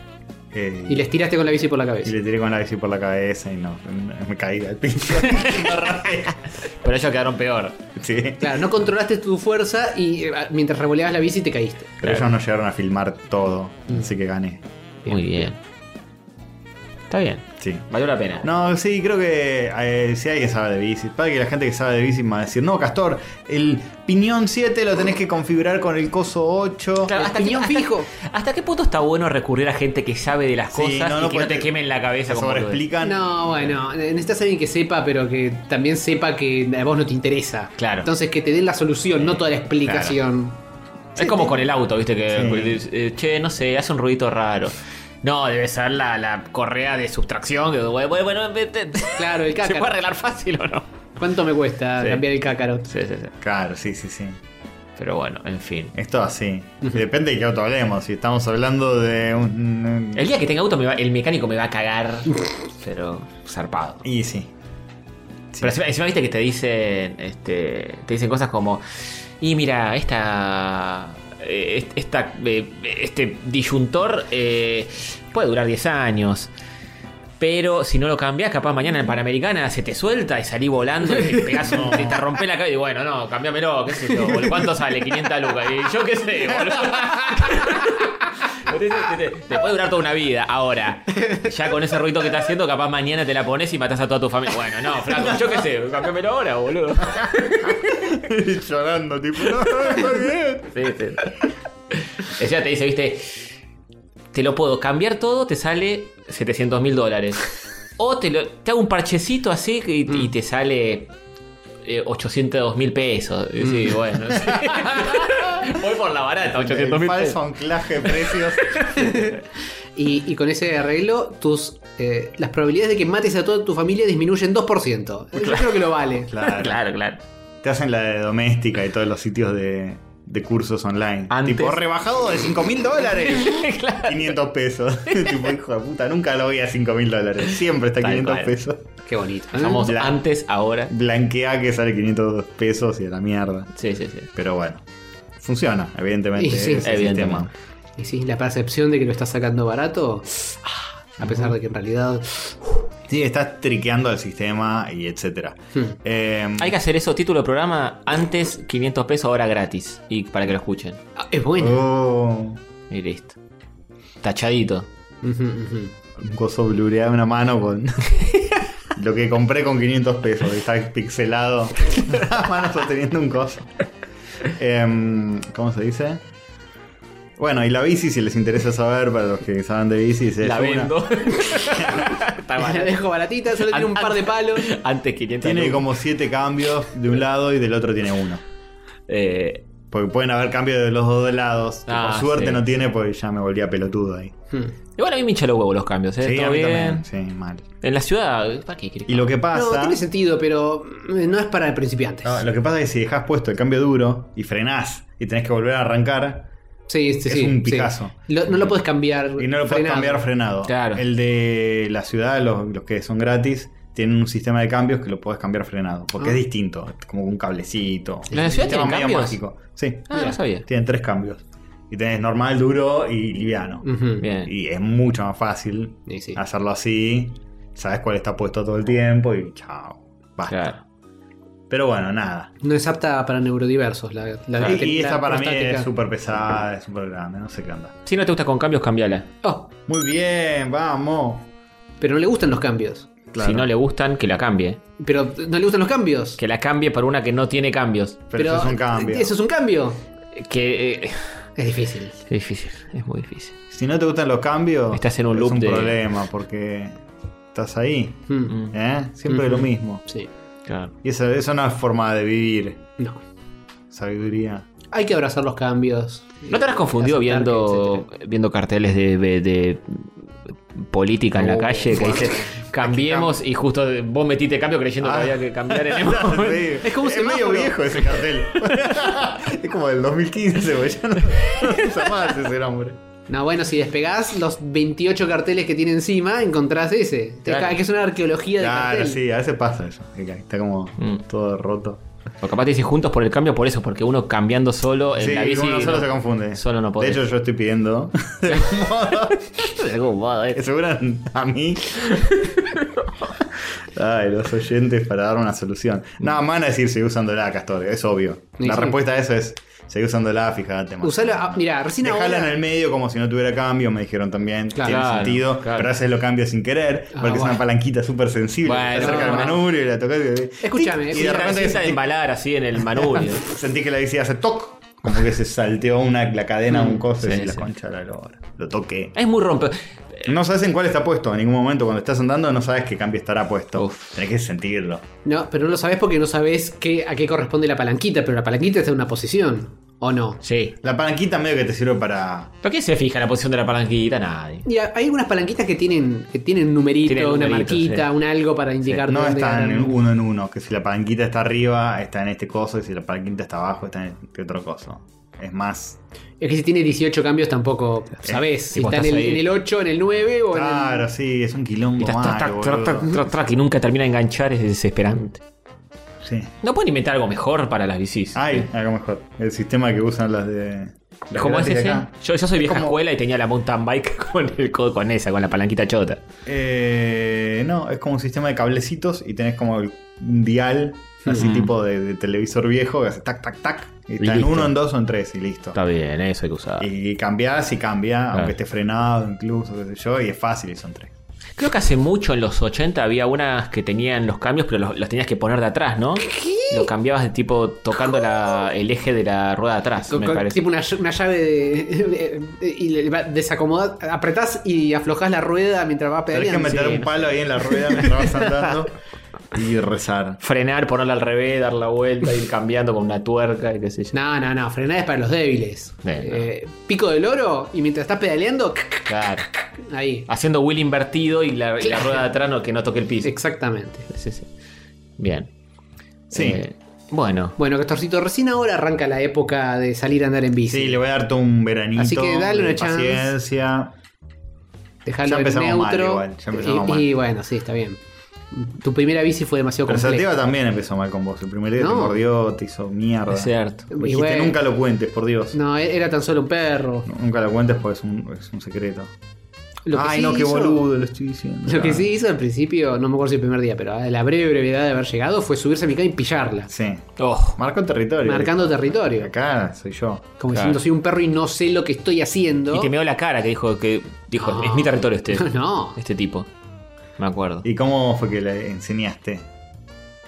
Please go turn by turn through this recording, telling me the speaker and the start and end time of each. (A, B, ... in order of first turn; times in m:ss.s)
0:00.5-0:01.1 A
0:00.9-0:02.1 B
0:02.0-0:06.4 A
0:05.3-0:05.7 C
0:06.8-0:07.8 C
0:07.9-0:08.6 A
0:08.4-0:12.0 B
0:12.0-0:14.6 A
0:15.0-0:15.5 B
0:15.0-0:15.6 C
0:17.1-0:18.5 C
0:17.6-0:17.9 A
0:18.4-0:27.1 A
0:27.0-0:32.8 C
0:27.1-0:28.1 B
0:30.7-0:31.7 A
0:32.3-0:33.7 A
0:33.0-0:40.6 B
0:37.8-0:38.1 C
0:39.8-0:40.2 C
0:41.2-0:50.8 C
0:41.2-0:41.5 A
0:42.3-0:42.8 A
0:49.2-0:49.9 B
0:51.2-0:52.9 B
0:52.9-0:53.3 C
0:53.4-0:54.4 A
0:55.0-0:55.9 C
0:55.9-1:00.3 A
1:00.1-1:04.0 C
1:04.0-1:04.5 A
1:05.5-1:05.9 A
1:05.6-1:16.5 C
1:17.4-1:38.0 C
1:21.6-1:22.2 A
1:35.1-1:35.4 A
1:37.1-1:40.7 A
1:39.7-1:40.0 C
1:40.7-1:43.5 C
1:44.3-1:51.1 C
1:51.8-1:57.4 C
1:53.6-1:54.0 B
1:54.5-1:55.4 A
1:56.5-1:59.0 A
1:58.0-1:59.2 C
1:59.0-1:59.3 B
2:00.0-2:06.3 B
2:05.4-2:05.8 C
2:06.3-2:06.8 A
2:06.4-2:07.2 C
2:07.6-2:18.9 A
2:11.3-2:11.8 C
2:13.2-2:14.3 C
2:15.1-2:15.4 C
2:18.0-2:18.6 C
2:19.1-2:19.9 B
2:19.5-2:20.9 C
2:19.8-2:20.2 A
2:20.9-2:23.7 A
2:23.8-2:24.3 C
2:24.3-2:24.8 A
2:25.4-2:27.5 A
2:26.4-2:26.8 B
2:26.8-2:27.5 C
2:28.0-2:30.7 B
2:31.2-2:32.7 B
2:33.1-2:36.7 A
2:36.6-2:41.0 C
2:41.2-2:41.9 B
2:41.6-2:42.6 A
2:42.9-2:43.4 C
2:44.2-2:44.9 C
2:45.2-2:45.9 B
2:46.2-2:48.3 A
2:48.9-2:53.7 A
2:54.5-2:56.2 A
2:57.4-3:02.1 A
3:00.4-3:03.0 C
3:02.6-3:04.7 B
3:03.6-3:05.9 C
3:05.4-3:08.4 A
3:09.1-3:09.6 C
3:09.9-3:14.3 A
3:11.9-3:12.6 C
3:15.0-3:17.0 C
3:16.2-3:17.7 A
3:17.8-3:19.3 C
3:19.0-3:20.0 A
3:19.5-3:22.4 B
3:22.2-3:26.5 A
3:26.9-3:30.3 B
3:27.2-3:28.6 A
3:29.4-3:50.7 A
3:30.6-3:31.0 C
3:38.3-3:39.4 C
3:38.3-3:38.6 B
3:40.1-3:40.6 C
3:43.8-3:44.2 B
3:44.2-3:44.5 C
3:46.1-3:46.4 B
3:50.5-3:50.8 C
3:51.7-3:52.5 A
3:52.6-3:55.9 B
3:54.6-3:57.9 A
3:58.0-3:59.3 C
3:59.4-3:59.7 B
3:59.9-4:01.4 A
4:02.0-4:03.1 B
4:03.3-4:03.7 A
4:03.4-4:04.8 C
4:05.0-4:06.4 B
4:06.4-4:08.3 C
4:08.3-4:09.3 A
4:08.4-4:10.0 B
4:10.3-4:11.4 C
4:11.6-4:12.2 B
4:12.3-4:13.6 C
4:13.7-4:17.0 A
4:14.9-4:16.0 C
4:17.5-4:20.0 A
4:18.3-4:18.6 B
4:19.3-4:20.3 B
4:20.6-4:20.9 C
4:21.0-4:22.9 A
4:23.9-4:24.7 A
4:24.9-4:28.0 B
4:26.5-4:30.1 C
4:30.7-4:36.8 C
4:31.4-4:33.4 A
4:35.0-4:43.0 A
4:36.8-4:37.9 B
4:43.3-4:49.2 B
4:47.4-4:47.8 C
4:48.6-4:52.0 A
4:52.4-4:57.2 C
4:55.1-4:59.8 A
4:59.6-5:00.6 C
5:00.5-5:02.2 A
5:03.9-5:22.0 A
5:08.6-5:09.0 B
5:11.0-5:12.6 B
5:14.7-5:15.2 B
5:14.8-5:15.9 C
5:17.1-5:17.6 B
5:18.6-5:19.6 C
5:19.0-5:19.6 B
5:20.6-5:21.8 B
5:21.1-5:23.4 C
5:23.0-5:29.1 A
5:26.7-5:27.0 B
5:27.2-5:27.7 C
5:29.2-5:30.3 C
5:30.2-5:35.0 A
5:33.8-5:34.2 C
5:35.2-5:40.4 B
5:40.4-5:40.7 C
5:40.8-5:42.5 A
5:42.6-5:44.7 C
5:44.6-5:50.0 B
5:47.1-5:48.1 C
5:49.0-5:56.0 A
5:56.4-6:01.1 B
5:58.7-5:59.5 C
6:00.5-6:03.2 A
6:02.0-6:05.4 C
6:06.2-6:06.5 A
6:06.6-6:08.7 C
6:08.3-6:13.0 A
6:11.3-6:16.2 C
6:16.4-6:25.8 A
6:21.3-6:21.7 C
6:24.2-6:24.7 C
6:25.7-6:26.9 C
6:26.8-6:31.1 A
6:31.6-6:40.6 C
6:36.3-6:36.8 B
6:40.1-6:47.1 B
6:46.3-6:48.9 A
6:49.5-6:50.4 A
6:50.4-6:54.1 C
6:54.1-6:59.1 B
6:56.0-6:56.4 C
6:59.1-6:59.5 C
6:59.8-7:00.3 B
7:00.3-7:03.4 C
7:01.8-7:02.2 B
7:03.2-7:04.1 B
7:04.1-7:04.5 C
7:05.2-7:05.5 C
7:06.3-7:07.6 C
7:06.3-7:06.6 A
7:07.6-7:11.0 B
7:10.7-7:13.9 A
7:12.0-7:13.3 B
7:15.0-7:18.0 B
7:15.2-7:17.1 A
7:18.5-7:20.3 B
7:19.8-7:25.6 A
7:21.8-7:22.2 B
7:23.3-7:23.9 C
7:23.9-7:24.6 B
7:25.5-7:27.1 B
7:27.0-7:29.1 A
7:29.8-7:30.8 B
7:29.9-7:32.1 A
7:31.6-7:36.7 B
7:36.7-7:40.3 A
7:37.2-7:37.6 C
7:38.2-7:39.3 B
7:40.4-7:42.9 B
7:40.5-7:40.8 C
7:42.7-7:46.5 C
7:44.4-7:46.0 B
7:47.2-7:47.6 C
7:47.6-7:49.4 A